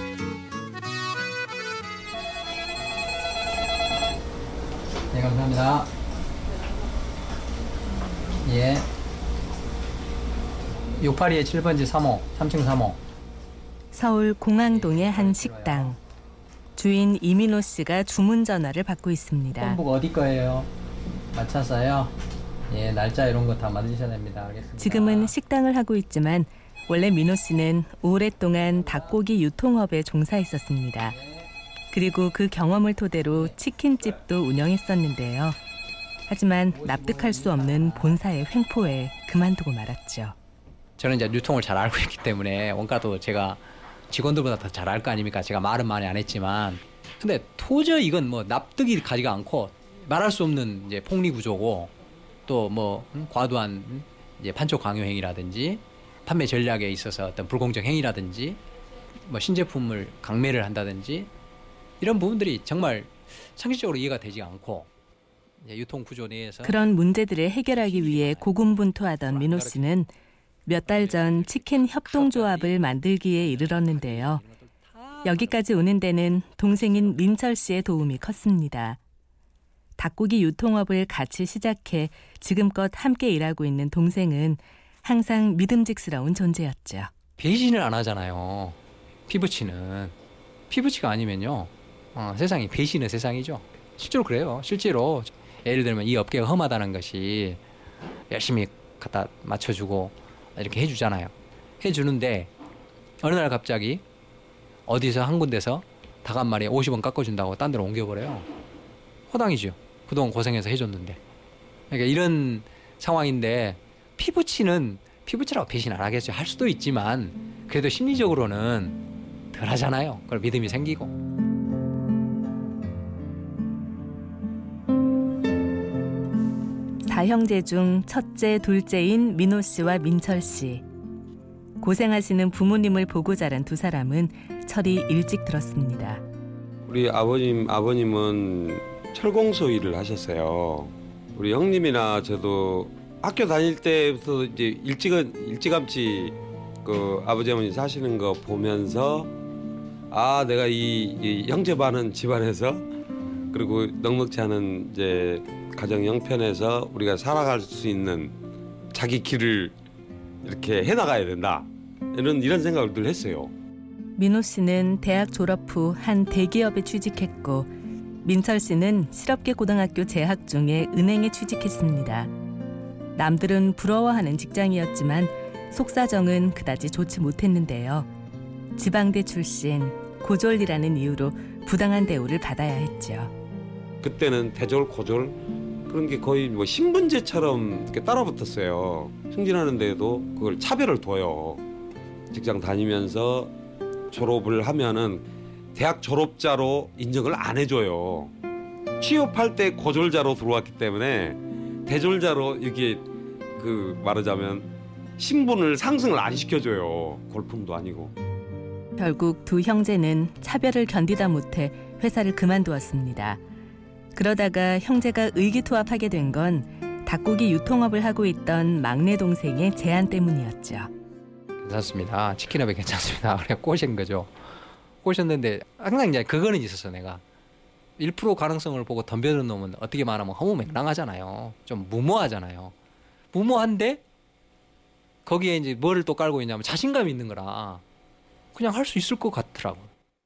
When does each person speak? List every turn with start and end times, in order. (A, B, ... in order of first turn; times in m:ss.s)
0:05.1-0:05.9 A
0:08.4-0:08.9 A
0:10.9-0:13.0 A
0:13.9-0:16.0 B
0:14.7-0:16.0 A
0:16.7-0:19.8 B
0:19.6-0:20.7 A
0:21.3-0:22.1 A
0:22.7-0:25.3 A
0:24.8-0:31.1 B
0:28.8-0:29.1 A
0:31.1-0:31.5 A
0:31.9-0:35.6 B
0:33.3-0:33.5 A
0:36.3-0:40.3 B
0:36.7-0:38.2 A
0:41.0-0:51.9 A
0:52.4-0:58.6 A
0:59.2-1:01.3 A
1:02.0-1:04.9 A
1:05.6-1:06.8 A
1:06.6-1:10.1 B
1:07.7-1:08.5 A
1:09.2-1:10.0 A
1:10.6-1:14.4 B
1:10.8-1:15.6 A
1:15.2-1:19.0 B
1:20.0-1:27.1 B
1:27.4-1:30.2 A
1:30.7-1:37.6 A
1:38.3-1:42.5 A
1:43.2-1:44.0 A
1:44.9-1:48.5 A
1:49.3-1:51.2 A
1:51.9-2:01.1 A
2:07.0-2:10.8 B
2:11.8-2:16.2 B
2:16.9-2:29.3 C
2:30.1-2:32.8 C
2:33.5-2:38.3 C
2:38.9-2:39.7 C
2:40.4-2:43.5 C
2:44.2-2:47.7 B
2:48.2-2:52.3 B
2:53.1-2:58.1 B
2:58.8-3:03.3 B
3:04.0-3:11.6 C
3:12.3-3:13.5 C
3:14.1-3:15.2 C
3:15.7-3:18.3 C
3:19.0-3:23.0 C
3:23.6-3:28.1 C
3:29.0-3:33.4 B
3:34.1-3:40.9 B
3:41.6-3:44.5 A
3:45.0-3:47.2 A
3:48.0-3:52.7 A
3:53.3-3:54.0 A
3:55.2-3:57.8 A
3:58.5-3:59.9 A